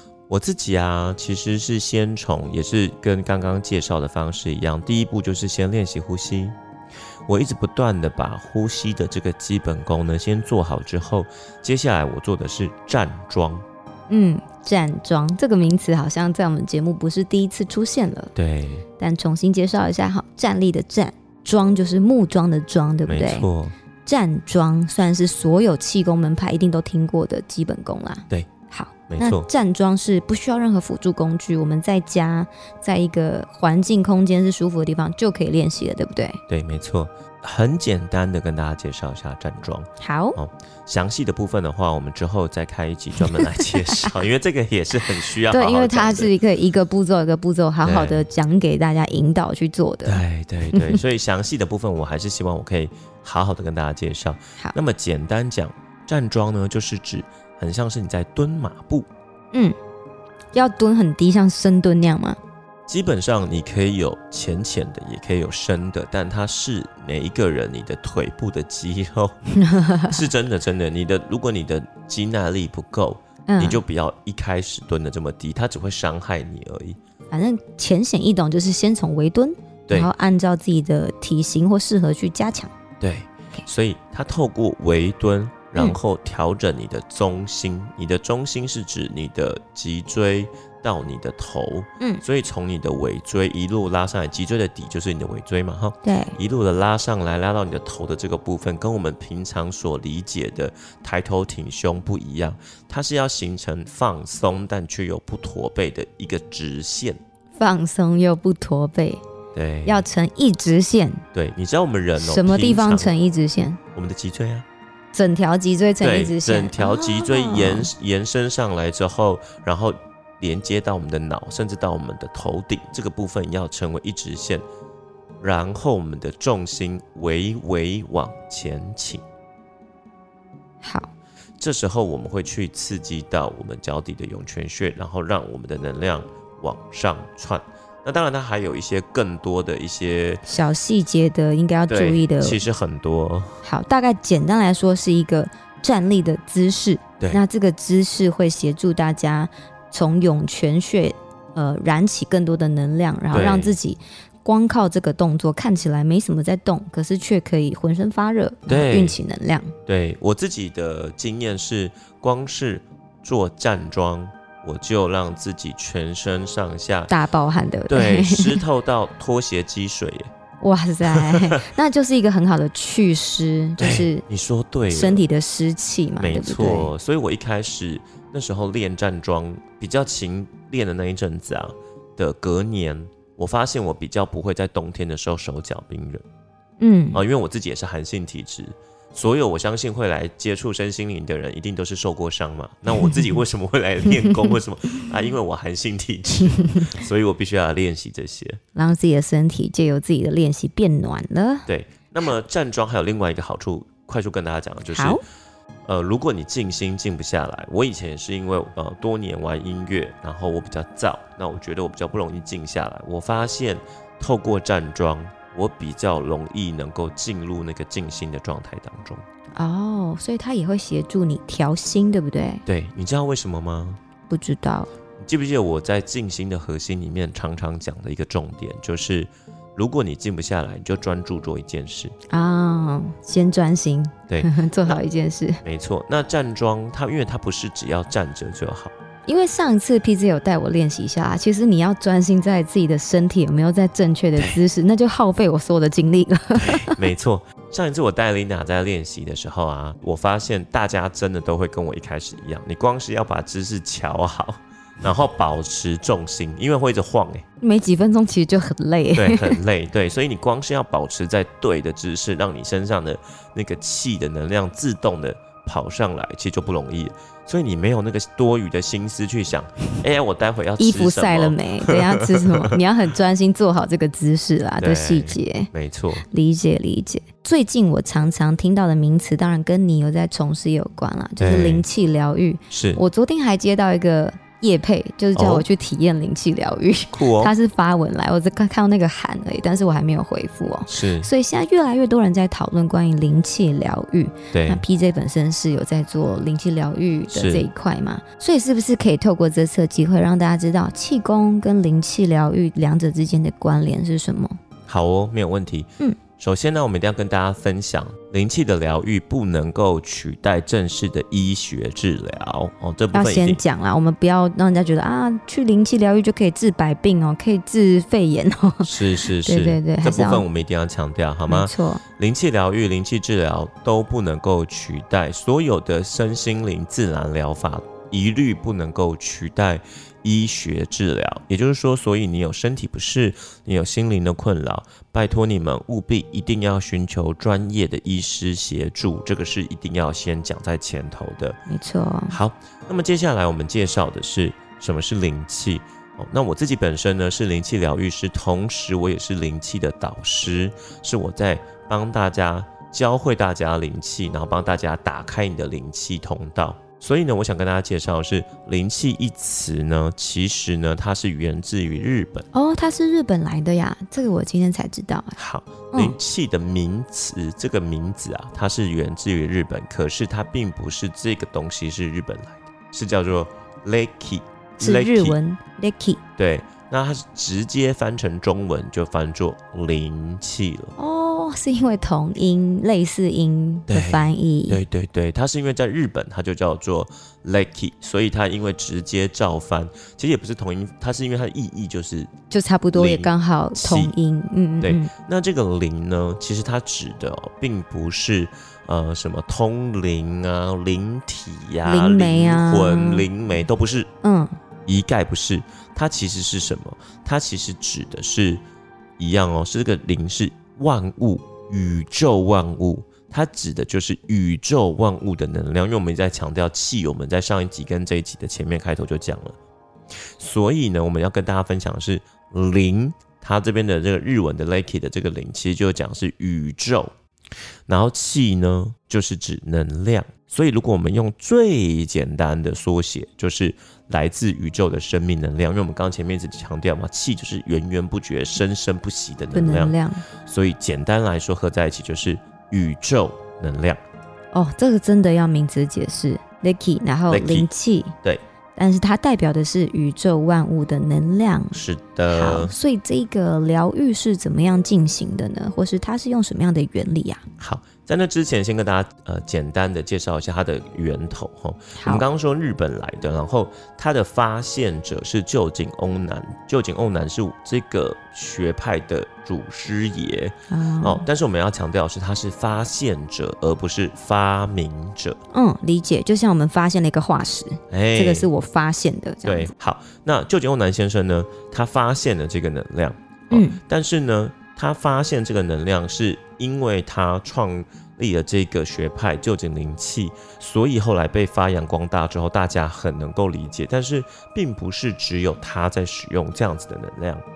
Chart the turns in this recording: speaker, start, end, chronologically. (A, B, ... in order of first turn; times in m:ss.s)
0:00.3-0:06.6 A
0:07.3-0:13.6 A
0:14.1-0:18.3 B
0:18.4-0:18.8 A
0:19.0-0:23.5 B
0:23.1-0:23.7 A
0:24.0-0:36.4 B
0:29.1-0:29.5 A
0:36.5-0:46.3 A
0:40.0-0:40.4 B
0:43.4-0:44.1 B
0:45.5-0:51.0 B
0:47.8-0:48.3 A
0:50.1-0:59.1 A
1:00.5-1:02.4 B
1:02.9-1:09.4 A
1:09.5-1:10.2 B
1:10.0-1:17.0 A
1:13.5-1:13.8 B
1:17.3-1:22.7 B
1:23.0-1:47.2 A
1:36.0-1:36.4 B
1:47.6-1:49.2 B
1:49.5-1:50.1 A
1:49.9-1:51.2 B
1:51.3-1:53.1 A
1:52.2-1:53.8 B
1:54.0-1:54.6 A
1:55.1-1:57.9 B
1:56.0-2:04.6 A
2:05.4-2:09.2 A
2:10.8-2:11.1 B
2:11.6-2:20.4 A
2:20.5-2:22.6 B
2:21.9-2:23.6 A
2:23.6-2:39.8 B
2:33.3-2:33.8 A
2:38.7-2:39.2 A
2:39.9-2:47.1 A
2:47.1-2:48.6 B
2:47.9-2:50.3 A
2:50.6-2:54.2 B
2:51.1-2:51.6 A
2:53.8-2:55.2 A
2:54.9-2:56.9 B
2:56.2-3:06.2 A
3:06.8-3:07.2 B
3:07.1-3:18.6 A
3:16.5-3:16.9 B
3:18.8-3:21.7 B
3:21.7-3:25.2 A
3:24.9-3:25.2 B
3:25.8-3:39.2 A
3:39.6-3:42.6 B
3:42.7-3:44.0 A
3:44.3-3:44.9 B
3:45.2-3:52.2 A
3:52.3-3:55.6 B
3:54.3-3:55.0 A
3:55.6-3:58.9 A
3:59.3-4:07.0 B
4:06.6-4:17.4 A
4:17.6-4:19.6 B
4:19.2-4:32.8 A
4:30.8-4:35.7 B
4:34.8-4:36.2 A
4:36.3-5:04.6 B
4:41.4-4:41.8 A
4:42.7-4:43.0 A
4:45.4-4:45.7 A
4:47.1-4:47.5 A
4:50.9-4:51.3 A
4:54.5-4:54.8 A
4:57.3-4:57.7 A
5:04.9-5:13.6 A
5:13.1-5:20.5 B
5:18.8-5:41.6 A
5:21.5-5:22.0 B
5:41.7-5:42.4 B
5:42.3-6:02.5 A
6:02.5-6:05.4 B
6:05.4-6:15.4 A
6:14.8-6:16.2 B
6:16.4-6:20.9 A
6:21.0-6:24.8 B
6:23.9-6:32.3 A
6:32.5-6:35.1 B
6:32.9-6:34.1 A
6:34.8-6:44.1 A
6:41.8-6:43.3 B
6:44.2-6:44.6 B
6:44.9-6:48.6 A
6:49.2-6:59.6 A
7:00.4-7:07.1 A
7:07.9-7:24.0 A
7:19.5-7:20.2 B
7:24.5-7:28.2 B
7:27.3-7:27.7 A
7:28.8-7:31.8 B
7:31.7-7:32.7 A
7:32.3-7:37.4 B
7:37.6-7:55.4 A
7:42.0-7:42.2 B
7:50.7-7:51.3 B
7:55.5-7:59.7 B
7:57.9-7:58.5 A
7:59.4-8:17.4 A
8:03.5-8:03.8 B